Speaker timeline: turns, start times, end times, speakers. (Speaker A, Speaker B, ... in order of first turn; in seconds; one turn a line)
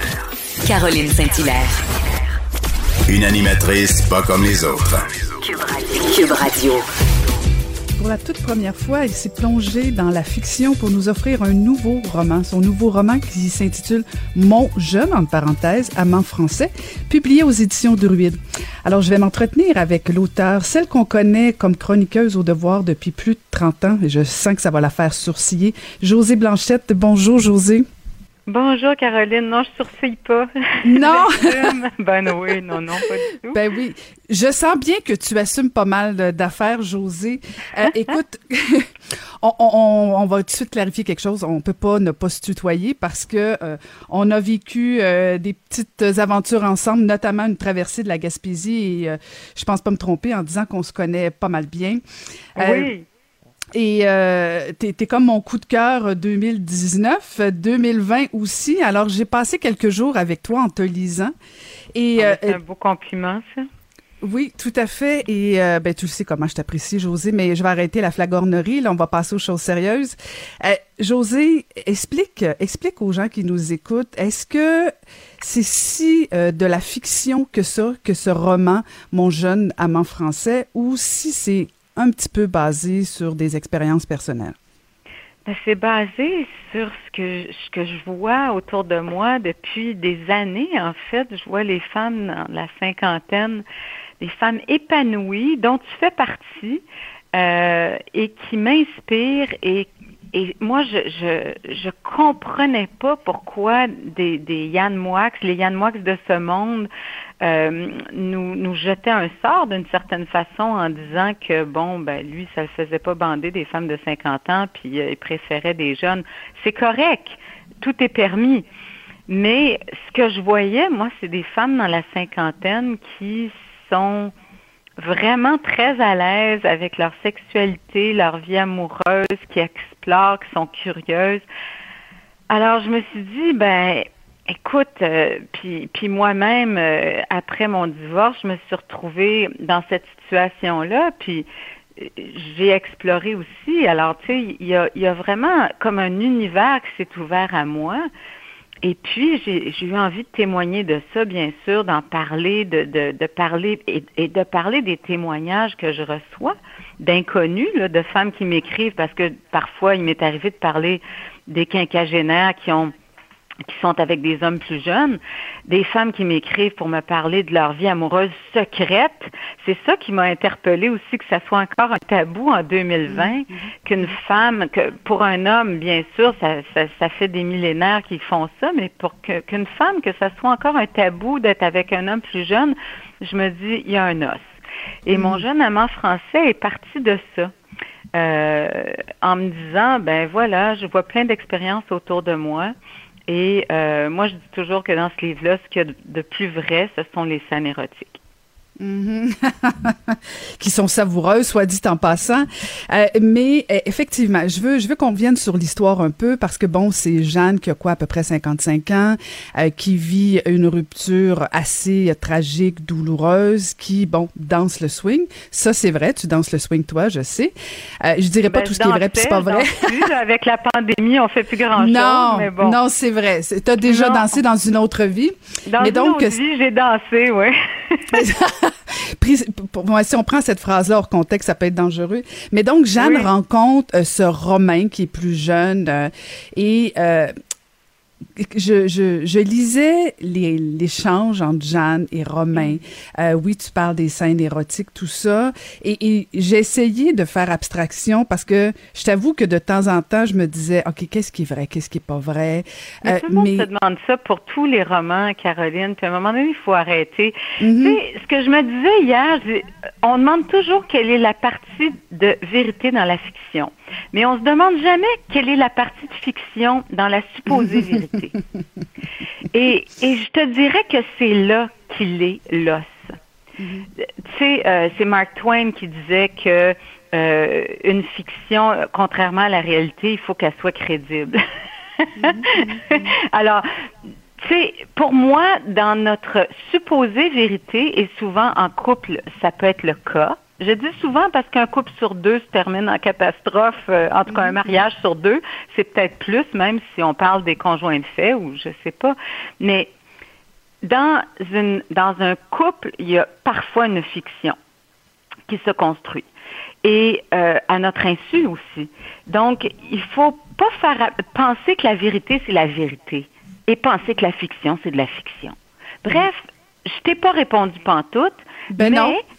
Speaker A: 0.6-1.9
Speaker B: 3.1-5.2
Speaker A: 5.4-6.9
Speaker C: 8.0-27.8
Speaker D: 28.5-33.6
Speaker C: 30.9-31.7
Speaker C: 33.5-52.0
Speaker D: 37.8-38.2
Speaker C: 52.6-52.9
Speaker D: 52.6-53.0
Speaker C: 53.7-61.3
Speaker C: 61.9-62.6
Speaker D: 62.2-63.7
Speaker C: 64.2-84.5
Speaker D: 85.5-93.6
Speaker D: 94.2-96.8
Speaker D: 97.3-106.9
Speaker D: 107.4-118.7
Speaker D: 119.3-124.3
Speaker D: 125.0-131.4
Speaker D: 132.5-148.1
Speaker D: 148.8-162.9
Speaker D: 163.7-184.6
Speaker C: 173.1-174.1
Speaker D: 185.1-187.5
Speaker C: 185.1-185.4
Speaker D: 188.2-192.7
Speaker D: 193.3-198.2
Speaker C: 198.8-220.1
Speaker D: 218.4-222.8
Speaker C: 221.8-226.4
Speaker D: 223.8-224.4
Speaker D: 225.7-228.2
Speaker C: 228.1-237.3
Speaker D: 233.0-233.3
Speaker C: 238.4-253.7
Speaker D: 253.1-268.4
Speaker C: 257.6-258.0
Speaker D: 269.5-273.1
Speaker C: 273.6-273.9
Speaker D: 274.0-281.4
Speaker D: 282.0-283.7
Speaker C: 282.2-283.1
Speaker D: 284.4-299.9
Speaker C: 294.3-294.8
Speaker D: 300.8-304.6
Speaker D: 305.5-306.3
Speaker D: 306.8-319.2
Speaker C: 318.7-319.2